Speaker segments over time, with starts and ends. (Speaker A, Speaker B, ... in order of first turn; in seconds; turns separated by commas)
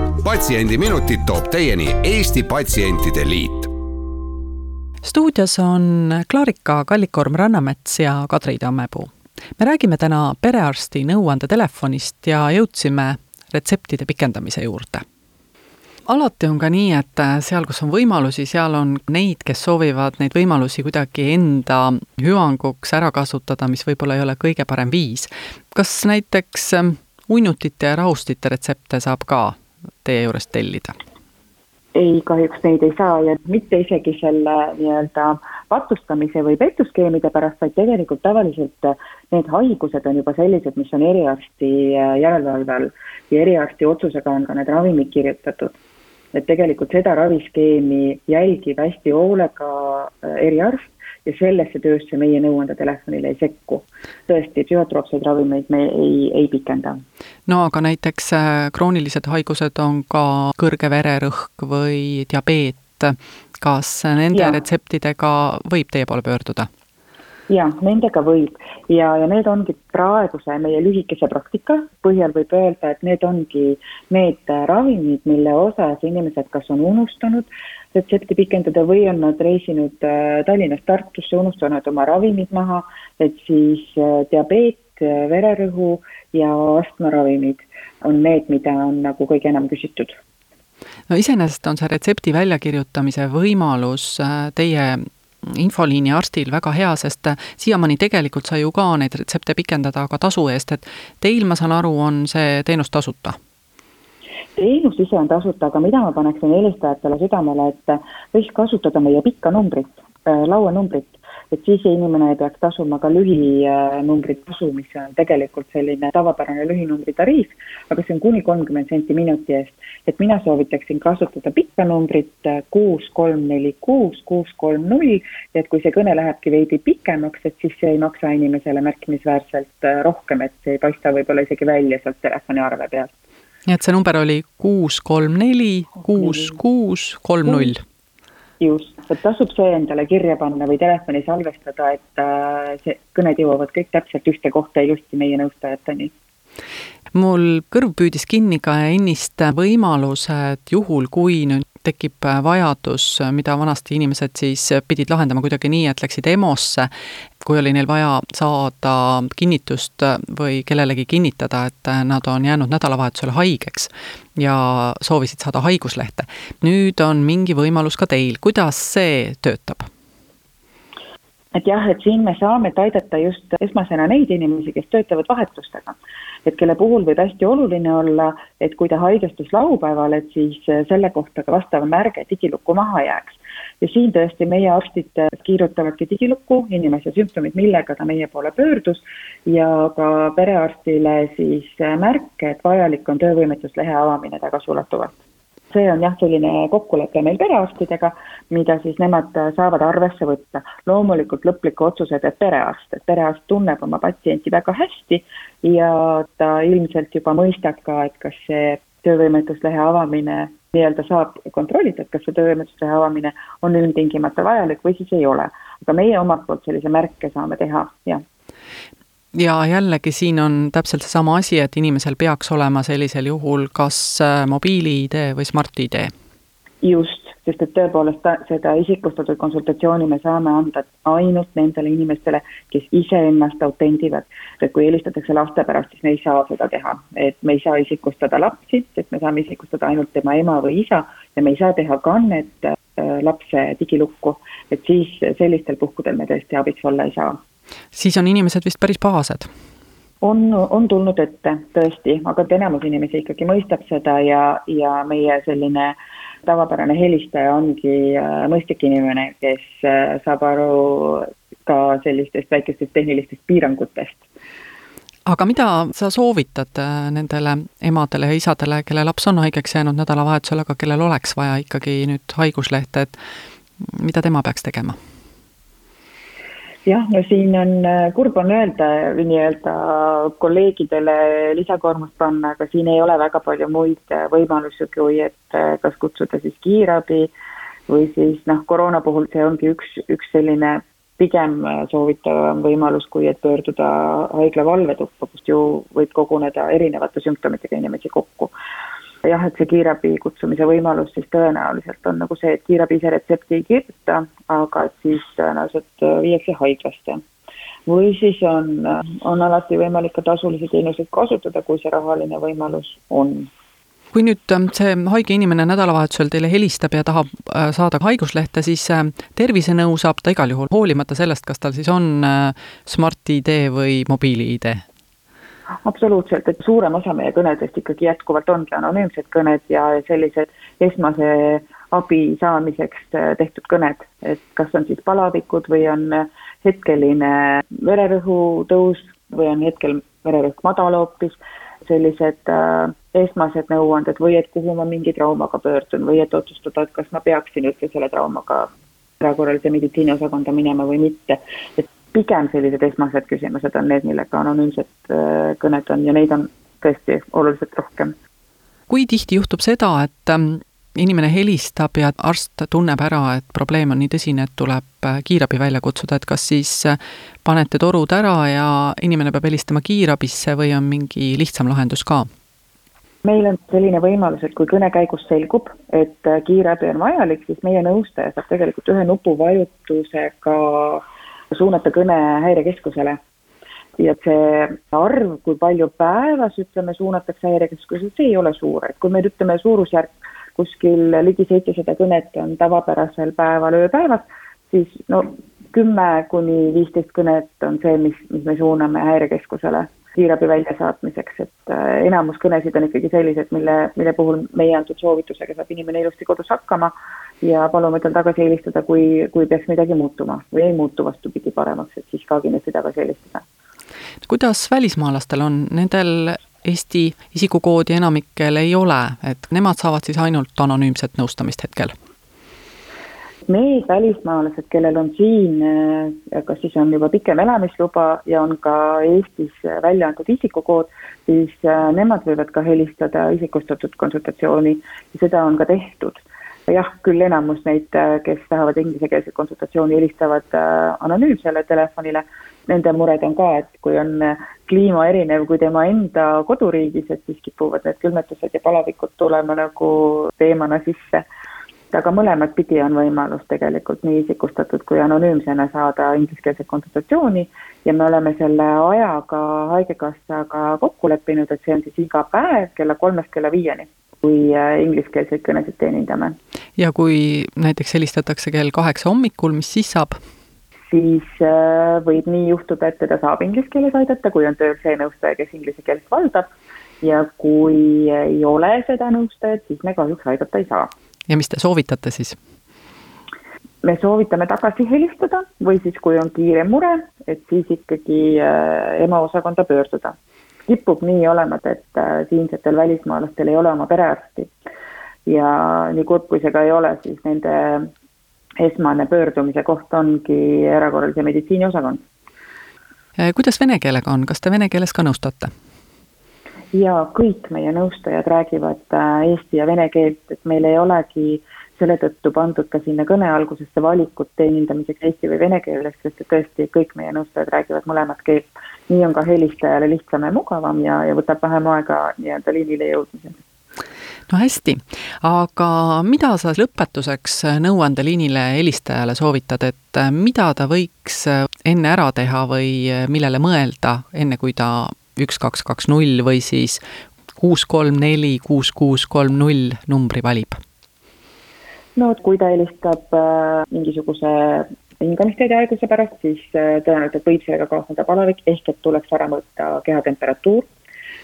Speaker A: 0.2-3.7, Speaker B: 5.0-15.0, Speaker B: 16.1-30.9, Speaker C: 31.9-45.8, Speaker C: 46.3-57.0, Speaker B: 57.5-66.7, Speaker C: 64.3-64.6, Speaker C: 67.5-90.2, Speaker B: 91.1-103.4, Speaker C: 104.6-133.1, Speaker B: 133.7-137.8, Speaker C: 138.6-146.1, Speaker B: 147.1-156.9, Speaker B: 157.4-169.9, Speaker C: 171.6-195.2, Speaker C: 195.7-218.2, Speaker B: 219.3-226.1, Speaker C: 226.8-247.4, Speaker B: 247.9-249.5, Speaker C: 250.2-264.3, Speaker B: 265.3-273.1, Speaker B: 273.9-275.0, Speaker C: 276.9-287.3, Speaker C: 287.9-298.5, Speaker C: 299.2-307.2, Speaker C: 307.9-313.5, Speaker B: 314.1-324.8, Speaker C: 325.8-348.7, Speaker C: 349.2-358.1, Speaker B: 358.9-372.3, Speaker C: 373.2-383.2, Speaker C: 384.0-413.4, Speaker B: 414.3-421.9, Speaker C: 423.5-451.2, Speaker C: 451.9-466.4, Speaker B: 466.8-470.2, Speaker C: 470.9-476.5, Speaker C: 477.0-480.9, Speaker B: 481.3-482.4, Speaker C: 483.8-490.1, Speaker C: 490.7-494.5, Speaker C: 495.3-497.9, Speaker C: 498.6-502.0, Speaker B: 503.2-505.5, Speaker C: 506.7-523.4, Speaker B: 524.3-536.8, Speaker B: 537.4-540.6, Speaker C: 542.0-550.7